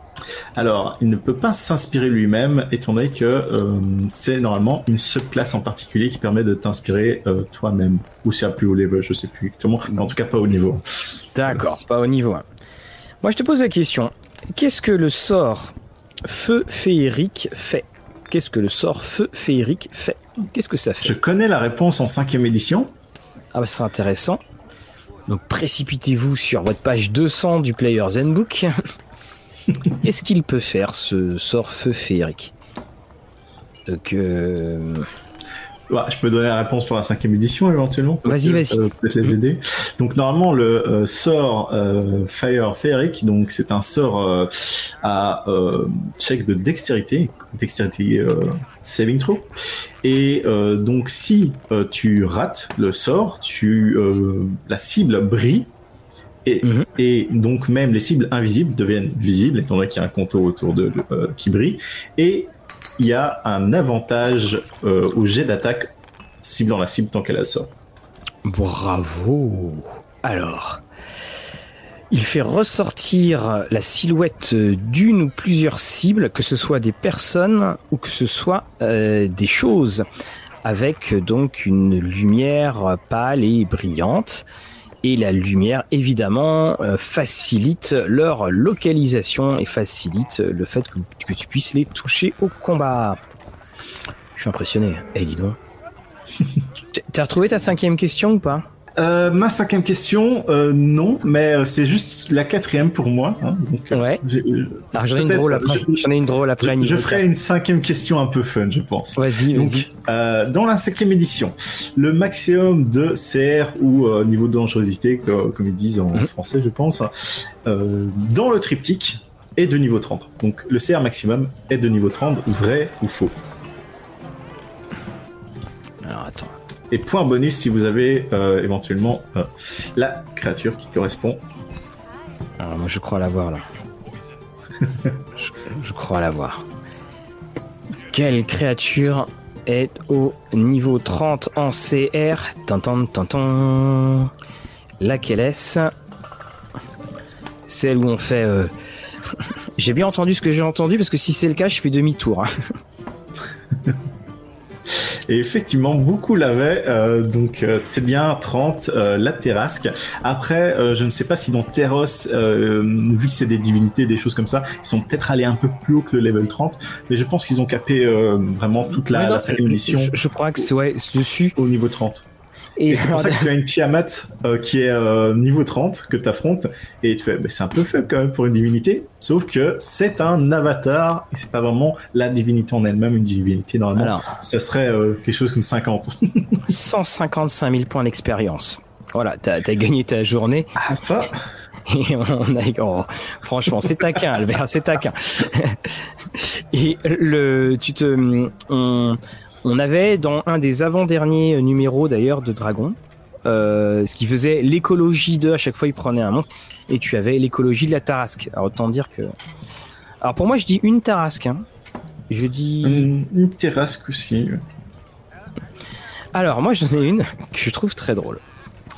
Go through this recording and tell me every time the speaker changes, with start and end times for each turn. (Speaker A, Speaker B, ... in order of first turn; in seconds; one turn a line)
Speaker A: 0.6-10.8
Speaker B: 11.3-12.4
Speaker B: 13.2-15.7
Speaker B: 16.2-21.1
Speaker A: 21.0-22.9
Speaker B: 23.6-24.4
Speaker B: 25.3-28.7
Speaker B: 30.0-32.5
Speaker B: 33.9-35.1
Speaker A: 35.9-55.7
Speaker B: 38.2-38.8
Speaker A: 56.5-67.7
Speaker B: 56.6-56.9
Speaker B: 68.5-70.8
Speaker B: 72.1-80.0
Speaker B: 80.7-84.5
Speaker B: 85.0-93.2
Speaker B: 94.4-95.6
Speaker B: 96.9-98.7
Speaker A: 99.0-106.1
Speaker B: 103.9-104.2
Speaker B: 104.9-107.2
Speaker A: 106.6-117.1
Speaker B: 109.2-109.9
Speaker A: 117.7-123.3
Speaker B: 126.0-126.5
Speaker A: 126.9-131.4
Speaker B: 132.6-133.6
Speaker B: 135.4-136.6
Speaker B: 138.1-144.3
Speaker B: 145.0-145.9
Speaker B: 147.7-148.7
Speaker B: 149.8-152.5
Speaker A: 155.3-170.7
Speaker B: 168.9-171.6
Speaker A: 171.6-172.2
Speaker B: 172.8-173.5
Speaker A: 172.9-186.7
Speaker B: 184.0-184.3
Speaker B: 186.7-190.8
Speaker A: 190.8-191.4
Speaker B: 191.9-209.3
Speaker B: 210.2-211.7
Speaker B: 212.3-213.1
Speaker A: 212.8-214.6
Speaker B: 216.3-218.4